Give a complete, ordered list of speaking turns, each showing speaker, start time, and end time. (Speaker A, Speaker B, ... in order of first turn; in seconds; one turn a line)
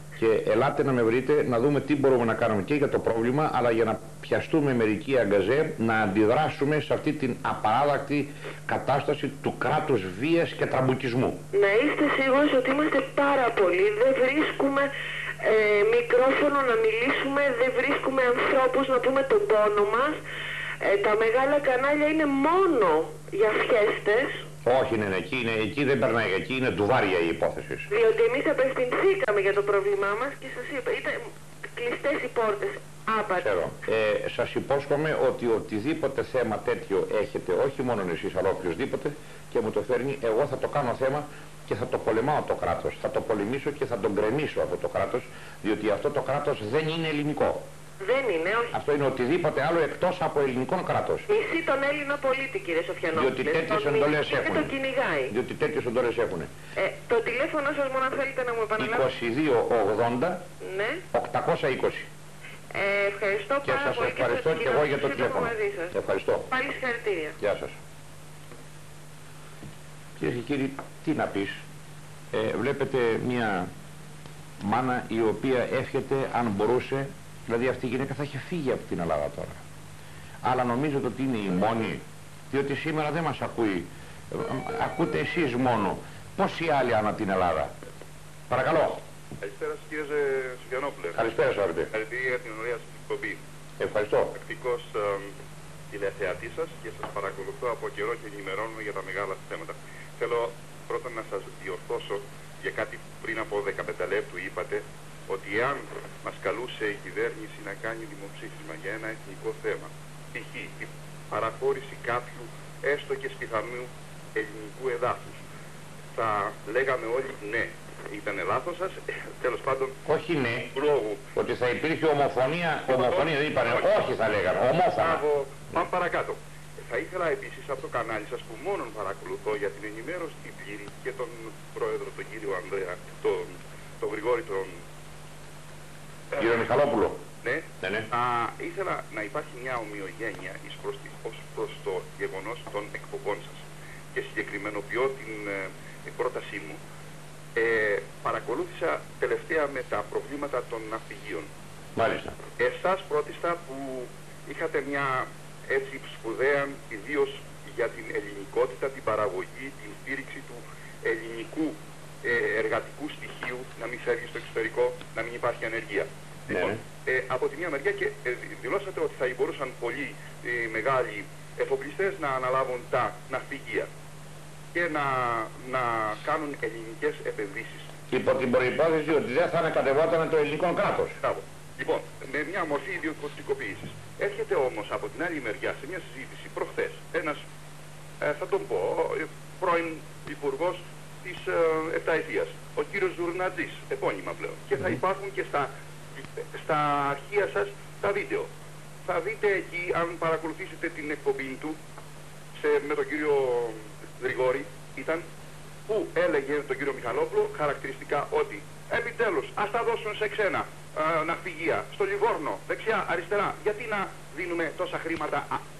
Speaker A: 0.2-11.4
Speaker B: 11.5-14.9
Speaker B: 15.4-20.2
Speaker B: 20.8-24.4
Speaker A: 24.6-27.9
Speaker B: 27.9-31.2
Speaker B: 31.7-33.5
Speaker A: 33.4-47.6
Speaker B: 48.0-48.8
Speaker A: 48.7-51.3
Speaker B: 51.3-55.3
Speaker A: 53.1-54.8
Speaker A: 55.3-56.5
Speaker B: 56.8-59.1
Speaker A: 58.8-60.4
Speaker B: 60.6-61.0
Speaker A: 61.1-62.1
Speaker B: 62.7-65.9
Speaker A: 63.6-66.5
Speaker B: 66.5-67.3
Speaker A: 67.4-67.7
Speaker A: 70.2-71.6
Speaker A: 72.3-73.7
Speaker A: 74.6-79.6
Speaker A: 80.4-87.7
Speaker A: 88.5-89.0
Speaker C: 89.4-91.2
Speaker A: 91.1-91.9
Speaker C: 91.9-93.4
Speaker A: 93.8-94.3
Speaker C: 94.3-95.3
Speaker C: 95.9-115.4
Speaker C: 116.1-119.9
Speaker A: 120.0-120.7
Speaker C: 120.7-121.2
Speaker A: 121.3-125.2
Speaker C: 122.9-124.0
Speaker C: 124.9-134.8
Speaker A: 136.4-137.2
Speaker C: 137.4-143.6
Speaker A: 137.8-138.1
Speaker C: 144.1-146.8
Speaker C: 147.6-151.5
Speaker A: 151.9-152.4
Speaker C: 152.6-173.9
Speaker A: 166.5-166.8
Speaker C: 174.7-177.9
Speaker A: 178.1-181.2
Speaker C: 181.2-187.4
Speaker C: 188.2-198.5
Speaker C: 199.0-201.8
Speaker C: 202.6-205.2
Speaker C: 205.9-215.6